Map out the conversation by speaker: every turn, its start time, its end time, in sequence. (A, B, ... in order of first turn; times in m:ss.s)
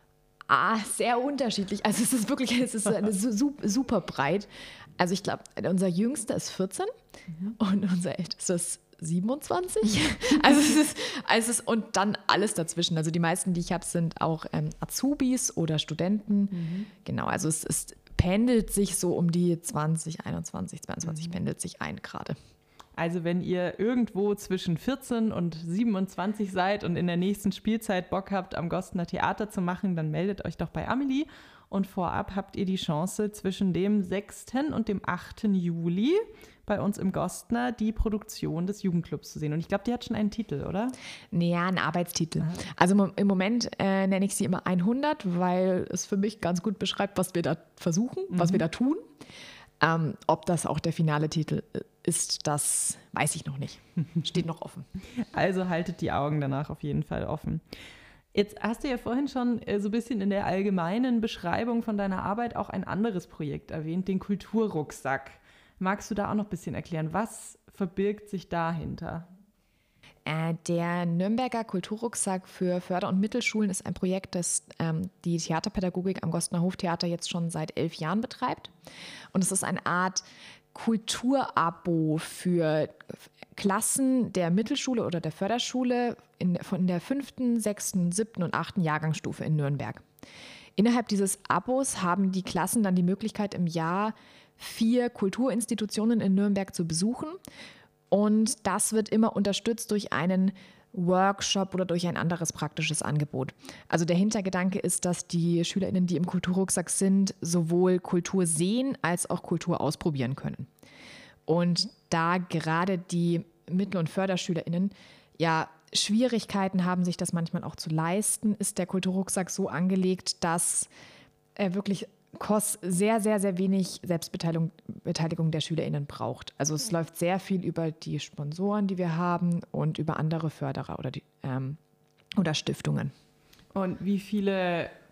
0:00.5-0:06.9 A
0:07.3-0:07.6 B
0:07.6-0:22.4 A
0:16.5-0:16.9 B
0:21.0-0:21.3 B
0:23.0-0:40.9 B
0:41.3-0:49.0 A
0:48.3-0:48.6 B
0:49.8-0:54.9 A
0:55.3-0:57.6 B
0:58.3-1:09.3 B
1:10.2-1:18.7 A
1:19.3-1:20.2 A
1:20.7-1:30.0 A
1:30.8-1:37.4 A
1:38.1-1:50.7 A
1:51.5-2:00.9 A
2:01.6-2:11.8 A
2:12.4-2:13.1 A
2:13.7-2:14.9 B